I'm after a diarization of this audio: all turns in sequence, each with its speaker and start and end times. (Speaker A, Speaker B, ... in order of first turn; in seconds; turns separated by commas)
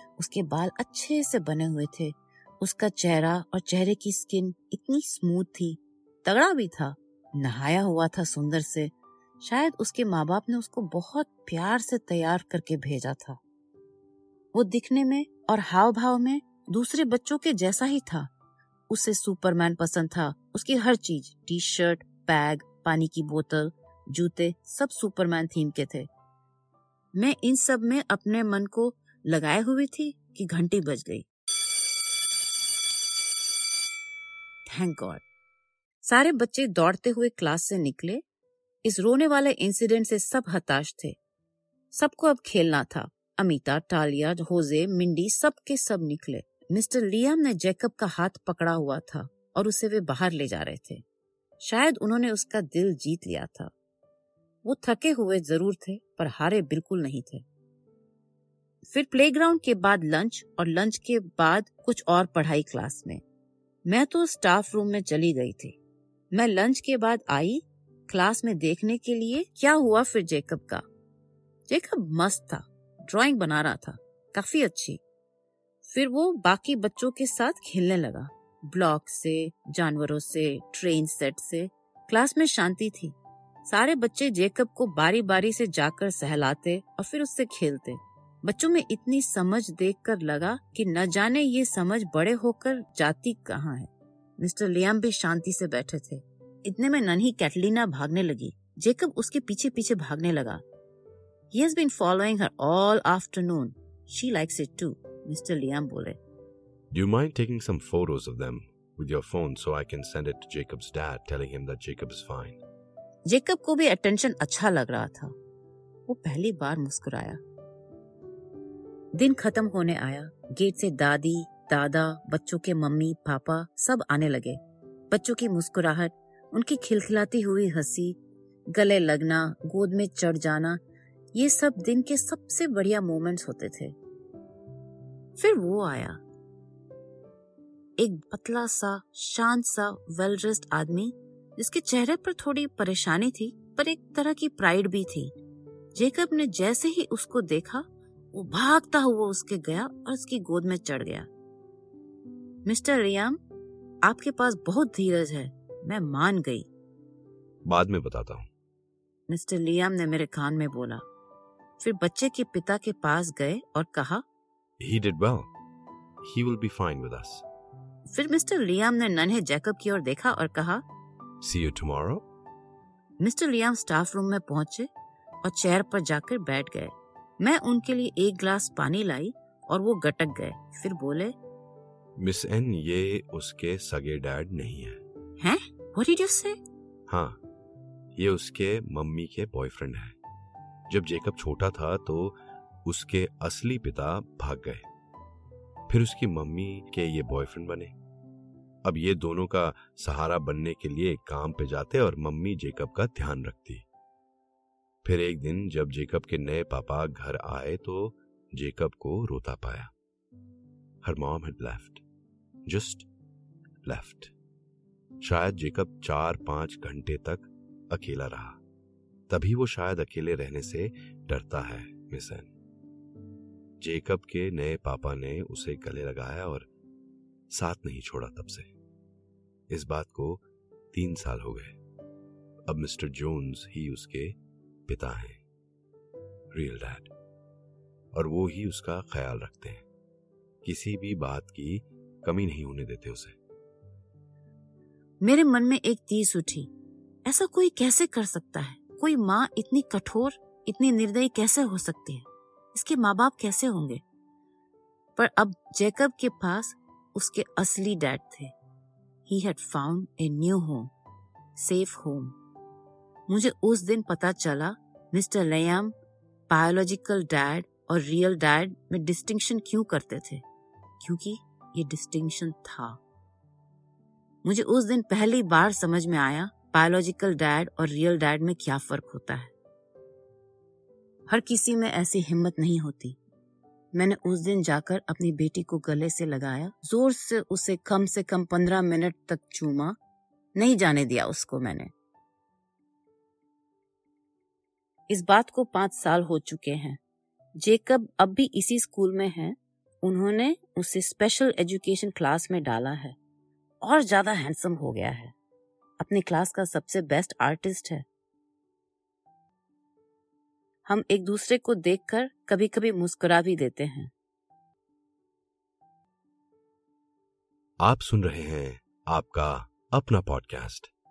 Speaker A: 0.2-13.4, Speaker A: 14.5-18.3, Speaker A: 18.9-26.1, Speaker A: 27.1-31.3, Speaker A: 34.7-35.2, Speaker A: 36.0-38.2, Speaker A: 38.8-41.2, Speaker A: 41.9-51.0, Speaker A: 51.6-53.7, Speaker A: 54.6-57.5, Speaker A: 58.9-63.2, Speaker A: 63.9-65.8, Speaker A: 66.3-70.8, Speaker A: 71.7-75.0, Speaker A: 75.8-83.2, Speaker A: 83.7-100.6, Speaker A: 101.5-106.2, Speaker B: 106.9-112.6, Speaker A: 113.3-115.3, Speaker A: 116.1-117.4, Speaker A: 119.2-124.6, Speaker A: 125.1-128.2, Speaker A: 128.7-130.8, Speaker A: 131.3-133.9, Speaker A: 135.4-136.2, Speaker A: 138.0-145.3, Speaker A: 145.9-151.3, Speaker A: 152.7-153.4, Speaker A: 154.0-156.7, Speaker B: 157.7-158.5, Speaker A: 159.3-161.0, Speaker A: 161.8-164.2, Speaker B: 164.8-165.5, Speaker B: 166.2-167.4, Speaker A: 168.1-170.8, Speaker B: 171.4-172.2, Speaker A: 173.2-174.9, Speaker A: 175.4-181.3, Speaker B: 182.2-185.0, Speaker A: 185.4-186.6, Speaker B: 187.1-187.4, Speaker B: 188.2-190.2, Speaker B: 190.9-194.9, Speaker B: 195.9-197.9, Speaker B: 198.8-203.8, Speaker B: 205.0-209.9, Speaker B: 211.0-212.0, Speaker B: 212.7-213.1, Speaker B: 213.8-214.3, Speaker B: 215.2-218.6, Speaker B: 219.3-222.5, Speaker B: 223.8-226.7, Speaker B: 227.5-228.7, Speaker B: 229.7-231.8, Speaker B: 232.7-234.4, Speaker B: 234.9-235.4, Speaker B: 236.5-237.1, Speaker B: 238.1-239.8, Speaker B: 240.6-243.4, Speaker A: 245.2-246.7, Speaker A: 247.2-254.0, Speaker A: 255.2-258.5, Speaker A: 259.3-260.9, Speaker A: 261.6-262.4, Speaker A: 263.3-265.9, Speaker A: 266.5-270.4, Speaker A: 271.0-273.0, Speaker A: 274.4-279.5, Speaker A: 281.3-283.2, Speaker A: 283.9-290.0, Speaker A: 290.6-291.9, Speaker A: 295.1-297.0, Speaker A: 297.6-303.2, Speaker A: 303.8-305.3, Speaker A: 306.0-308.1, Speaker A: 310.9-314.1, Speaker B: 317.8-320.9